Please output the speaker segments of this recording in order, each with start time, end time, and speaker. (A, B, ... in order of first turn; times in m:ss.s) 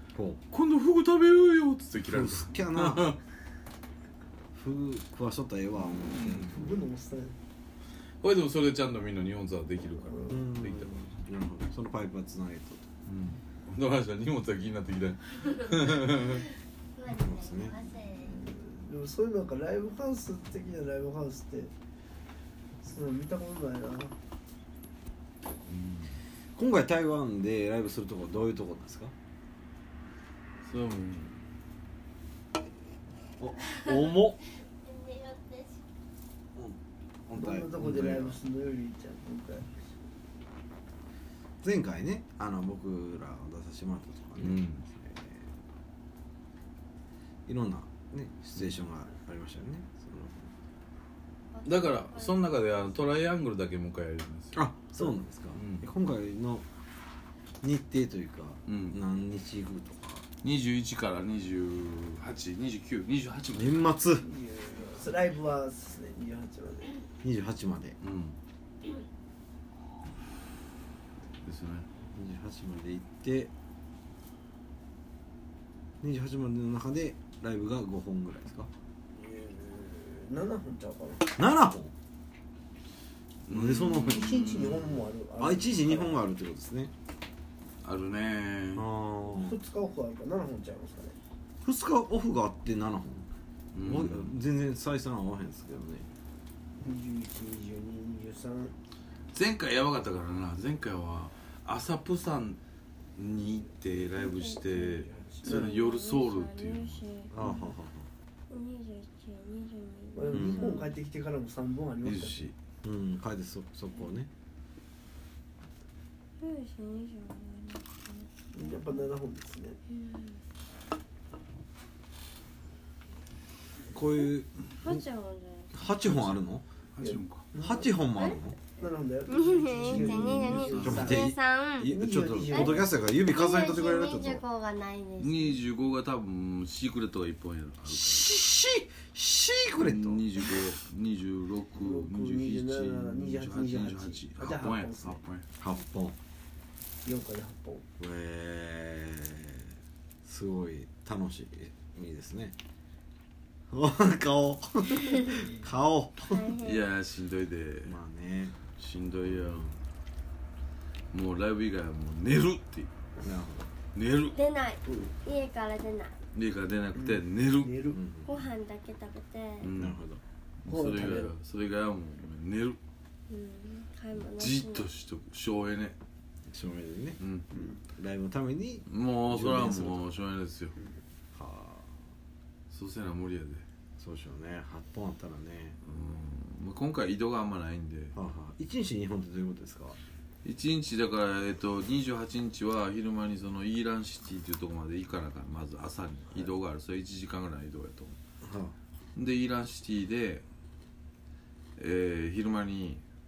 0:00.1-0:00.4 A
0:00.5-0:03.2 B
0:02.0-0:03.1 A
0:04.5-0:06.7 A
0:05.9-0:06.6 B
0:06.4-0:07.4 C
0:08.2-0:11.2 B
0:09.8-0:10.5 C
0:10.3-0:12.9 A
0:13.1-0:16.5 B
0:16.9-0:18.4 D
0:17.0-0:17.8 A
0:18.2-0:21.7 C
0:22.8-0:24.2 C
0:25.6-0:26.2 B
0:26.5-0:29.1 A
0:30.6-0:31.4 B
0:33.4-0:34.4 A
0:34.7-0:35.8 D
0:36.5-0:38.4 A
0:37.4-0:39.9 C
0:41.6-0:45.5 A
0:44.4-0:44.8 B
0:47.4-0:50.5 A
0:51.5-0:52.5 D
0:51.6-0:55.9 B
0:54.5-0:56.6 A
0:57.6-1:00.2 A
0:58.7-0:59.0 B
1:00.4-1:03.9 B
1:03.5-1:04.3 A
1:04.2-1:07.1 C
1:07.2-1:08.0 A
1:08.0-1:08.4 B
1:11.4-1:11.9 B
1:12.1-1:13.5 A
1:16.0-1:18.7 A
1:19.1-1:21.3 C
1:21.3-1:21.9 A
1:23.4-1:25.2 B
1:23.5-1:24.3 A
1:24.1-1:26.2 C
1:25.4-1:26.9 A
1:27.8-1:28.9 B
1:28.7-1:29.6 A
1:29.3-1:31.2 C
1:31.6-1:36.1 A
1:33.7-1:34.4 B
1:36.8-1:38.7 C
1:39.3-1:42.6 B
1:43.2-1:47.0 B
1:44.2-1:47.6 D
1:45.0-1:45.7 C
1:47.3-1:48.1 A
1:48.5-1:50.8 D
1:50.1-1:52.5 C
1:50.3-1:50.9 A
1:52.0-1:52.5 B
1:52.8-1:54.3 A
1:56.4-1:59.0 D
1:58.5-1:59.8 C
1:59.9-2:00.4 D
2:03.9-2:05.0 A
2:04.7-2:05.7 D
2:05.7-2:06.6 A
2:06.0-2:06.4 B
2:07.0-2:07.4 B
2:07.0-2:08.0 C
2:07.6-2:08.6 A
2:08.8-2:11.3 C
2:09.3-2:12.0 D
2:09.9-2:11.2 B
2:09.9-2:14.4 A
2:11.8-2:12.9 C
2:12.5-2:15.6 D
2:15.2-2:18.4 B
2:17.9-2:20.6 A
2:19.8-2:25.5 B
2:21.7-2:25.2 C
2:25.6-2:26.2 A
2:27.0-2:27.8 C
2:28.0-2:29.7 A
2:30.2-2:32.6 A
2:33.7-2:36.5 A
2:36.3-2:36.8 D
2:36.6-2:38.0 B
2:37.8-2:38.6 A
2:38.8-2:39.7 B
2:39.3-2:39.7 A
2:41.1-2:42.9 B
2:43.2-2:43.7 A
2:43.9-2:44.4 B
2:44.3-2:46.2 D
2:44.8-2:45.1 C
2:46.3-2:47.8 B
2:47.0-2:48.0 C
2:47.9-2:48.3 A
2:48.2-2:49.7 D
2:49.6-2:50.0 B
2:49.7-2:50.2 A
2:50.6-2:52.8 B
2:50.6-2:51.3 C
2:53.3-2:54.8 D
2:54.1-2:56.0 B
2:56.5-2:57.2 A
2:57.2-2:57.5 B
2:57.5-2:57.8 C
2:57.8-3:00.1 A
2:58.9-3:00.7 B
3:01.3-3:02.1 A
3:02.7-3:03.6 B
3:04.0-3:05.8 A
3:05.8-3:08.2 B
3:08.1-3:10.0 A
3:10.4-3:18.2 B
3:18.4-3:18.8 A
3:19.2-3:20.4 B
3:21.8-3:23.0 B